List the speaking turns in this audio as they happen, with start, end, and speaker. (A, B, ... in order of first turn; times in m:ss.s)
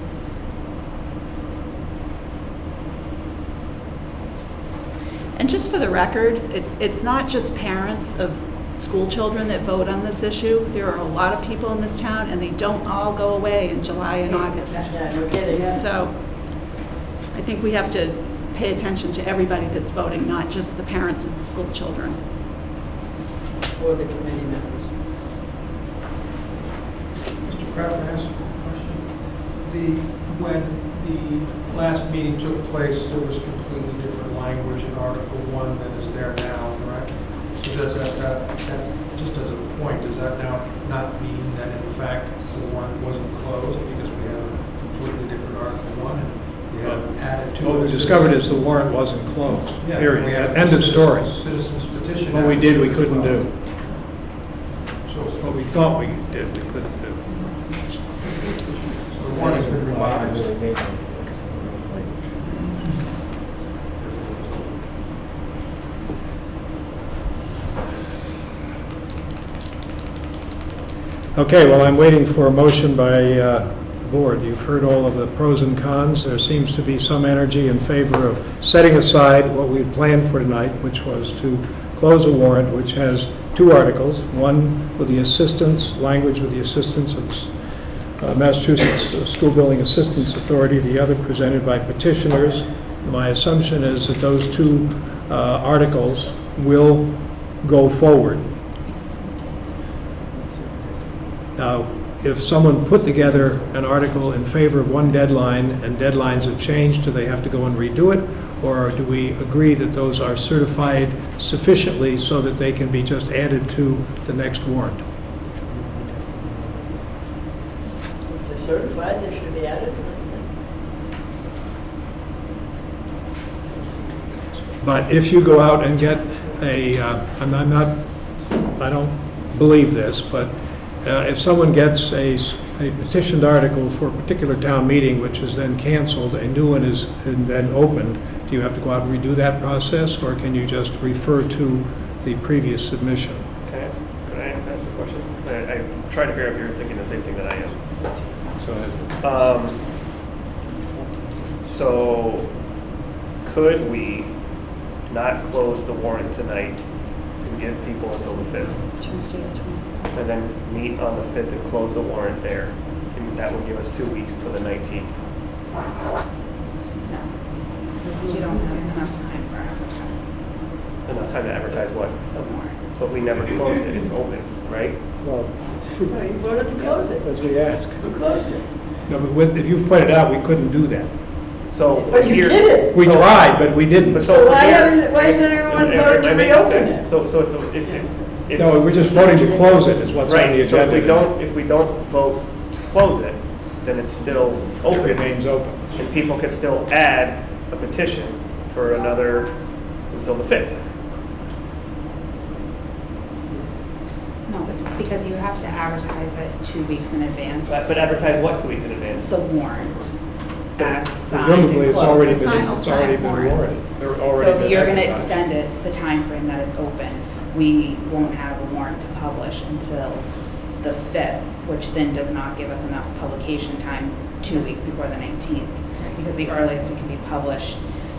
0:05.4-0:16.8 A
0:14.2-0:15.9 B
0:17.3-0:22.2 A
0:23.7-0:24.9 B
0:27.4-0:48.5 C
0:47.6-0:51.3 D
0:49.8-0:54.2 C
0:52.3-0:53.6 D
0:55.0-0:56.0 C
0:55.4-0:58.4 D
0:59.1-1:00.6 C
0:59.4-1:01.0 B
1:00.2-1:01.4 E
1:04.0-1:04.8 C
1:11.3-1:27.5 D
1:28.2-1:38.5 D
1:40.4-1:40.9 B
1:41.6-1:55.0 D
1:55.8-1:56.6 B
1:58.2-2:00.6 B
2:04.8-2:23.5 D
2:23.6-2:27.8 F
2:28.6-2:29.0 D
2:29.2-2:29.8 F
2:31.7-2:32.5 F
2:33.4-2:34.3 F
2:35.1-2:36.8 F
2:37.4-2:38.8 F
2:39.0-2:40.2 A
2:40.1-2:45.2 F
2:46.9-2:50.4 G
2:51.0-2:52.3 F
2:52.3-2:52.8 G
2:52.9-2:55.0 F
2:55.2-2:58.1 E
2:56.1-2:57.4 B
2:58.0-2:58.7 B
2:59.1-3:01.2 D
3:01.7-3:08.9 F
3:02.0-3:03.0 B
3:02.9-3:04.3 D
3:04.2-3:07.1 B
3:07.9-3:08.2 B
3:08.6-3:11.3 D
3:09.0-3:10.1 B
3:10.2-3:15.2 F
3:14.8-3:15.9 D
3:16.0-3:20.8 F
3:23.5-3:23.8 B
3:24.5-3:27.8 G
3:27.6-3:30.1 F
3:29.3-3:30.2 G
3:30.7-3:33.5 G
3:30.8-3:31.1 F
3:31.3-3:35.5 D
3:31.9-3:33.5 A
3:34.3-3:47.8 G